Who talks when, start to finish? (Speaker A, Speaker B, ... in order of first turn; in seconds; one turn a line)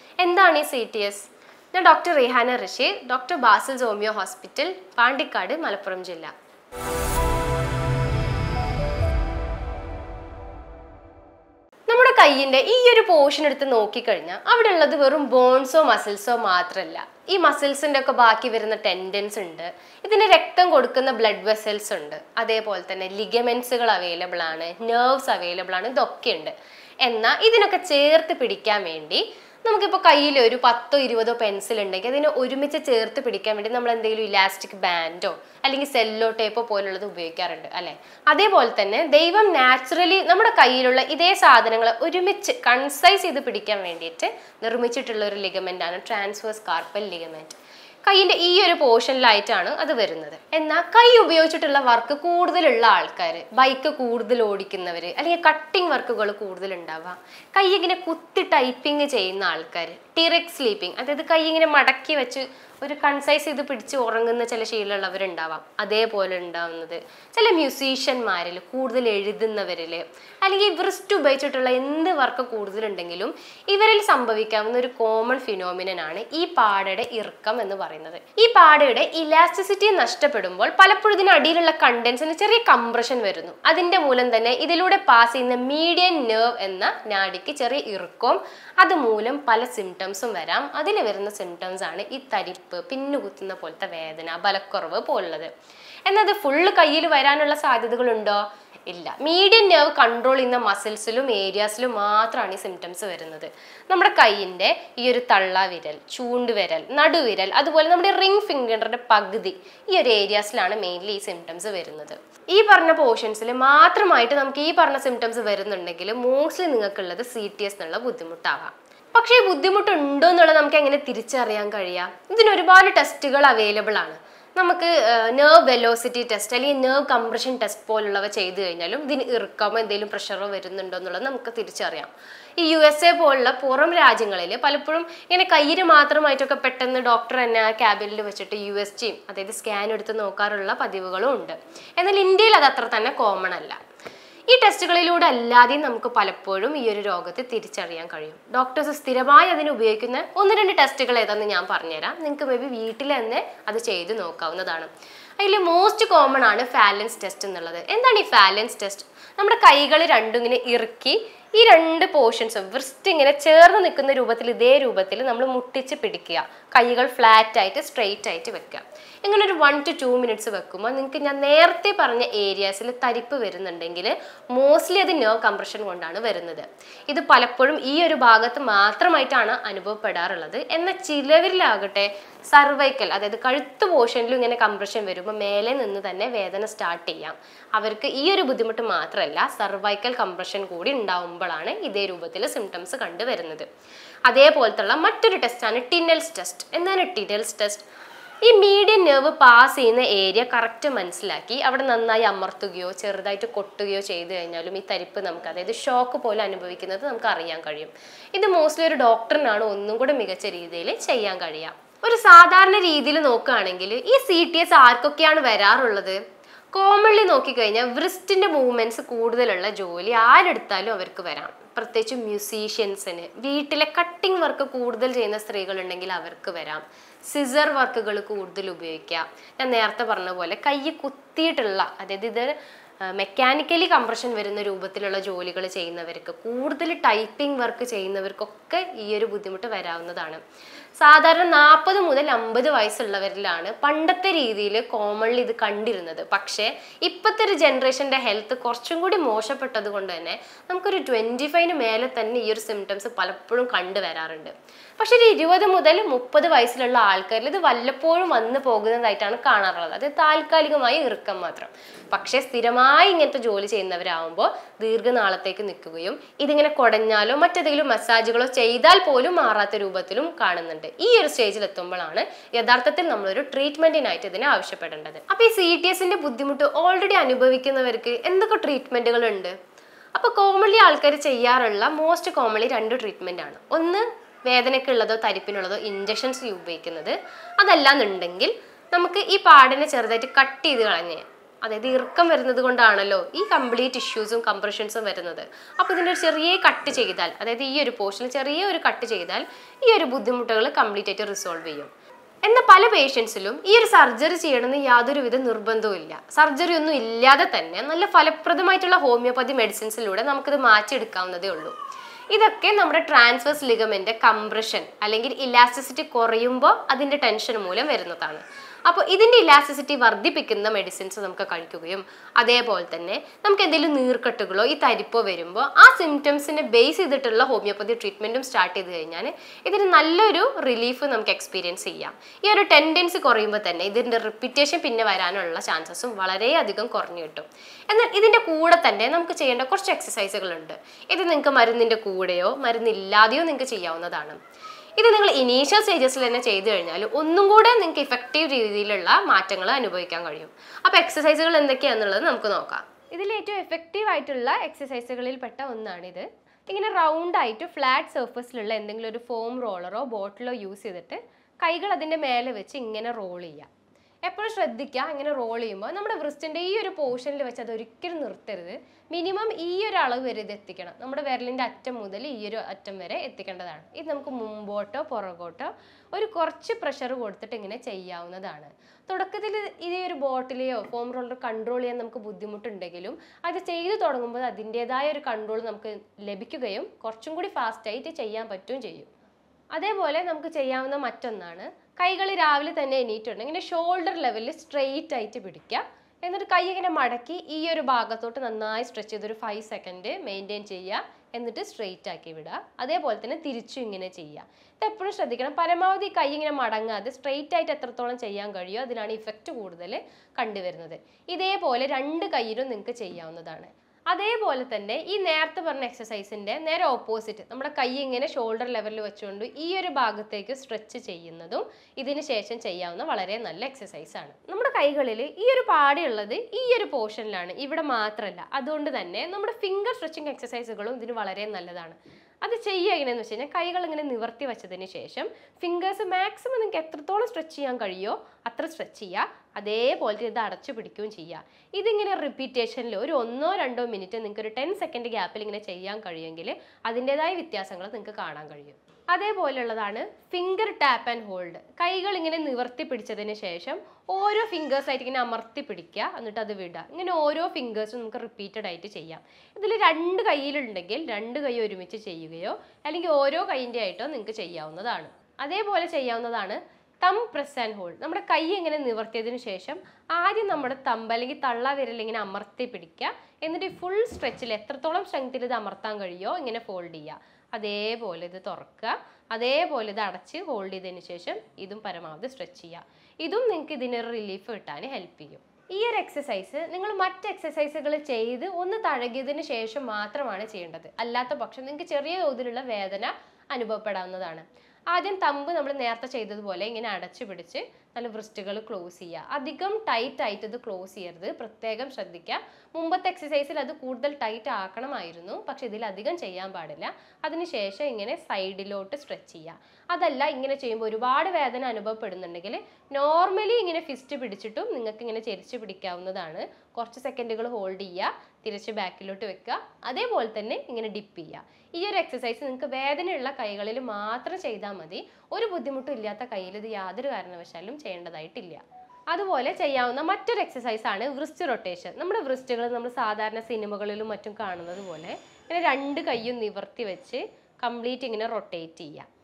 Speaker A: 0.2-6.3
Speaker A: 11.9-95.5
Speaker A: 96.1-143.8
Speaker A: 144.5-193.7
Speaker A: 194.3-197.9
Speaker A: 198.4-216.2
Speaker A: 216.7-240.4
Speaker A: 241.0-279.6
Speaker A: 280.1-301.9
Speaker A: 302.4-311.7
Speaker A: 312.3-344.4
Speaker A: 345.0-363.7
Speaker A: 364.3-389.1
Speaker A: 389.8-539.1